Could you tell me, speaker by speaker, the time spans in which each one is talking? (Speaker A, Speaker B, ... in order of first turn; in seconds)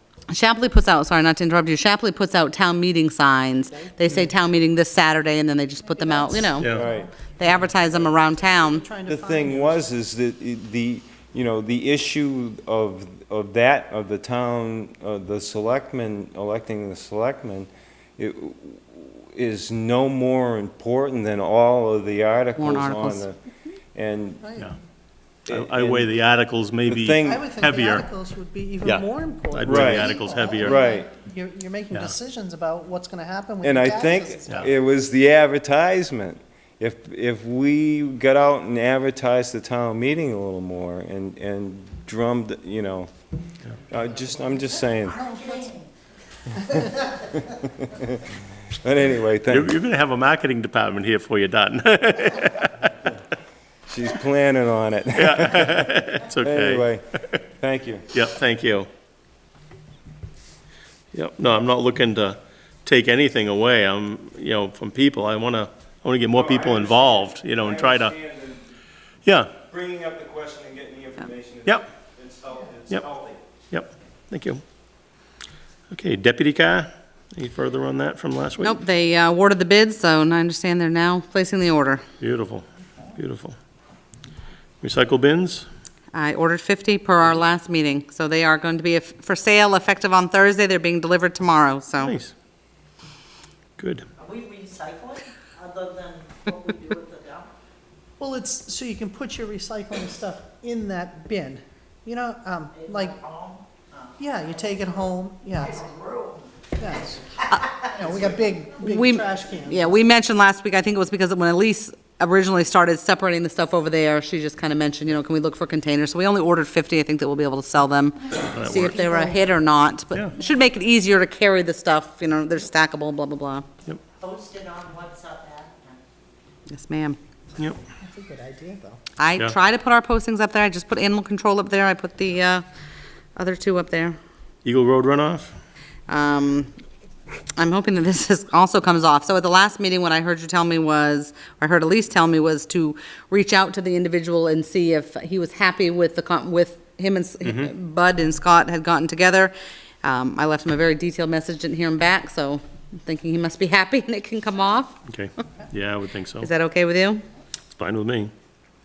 Speaker A: 0.3-6.8, 7.4-8.9, 22.6-23.3, 78.6-82.0, 86.1-92.2, 108.8-123.7, 126.7-127.2, 129.2-132.6, 133.4-134.2, 136.1-136.7, 137.6-155.0, 156.4-157.2
Speaker B: 3.7-4.3, 5.9-7.7, 8.4-9.9, 24.4-24.8, 27.2-34.7, 44.6-45.7, 46.5-47.2, 98.2-103.2, 104.2-105.9, 106.8-110.0, 118.8-119.5, 128.0-129.0
Speaker C: 6.6-6.9, 25.5-28.1, 28.8-30.8, 31.9-32.2, 49.5-53.1, 55.1-57.4, 58.1-58.9, 61.1-68.2, 69.2-69.5, 73.7-74.6, 75.9-78.8, 82.2-83.6, 84.8-85.7, 92.0-92.3, 93.8-94.1, 118.5-119.0, 134.6-135.6, 147.4-147.7, 155.1-156.5, 157.8-158.3
Speaker D: 6.7-7.1, 9.1-23.4, 23.9-24.5, 25.5-26.1, 26.9-27.5, 29.6-31.1, 33.6-43.1, 43.9-45.3, 47.5-49.8, 53.9-55.8, 56.4-58.1, 66.3-68.8, 69.7-73.4
Speaker E: 94.2-97.5, 102.8-105.0, 105.6-106.5, 124.2-126.0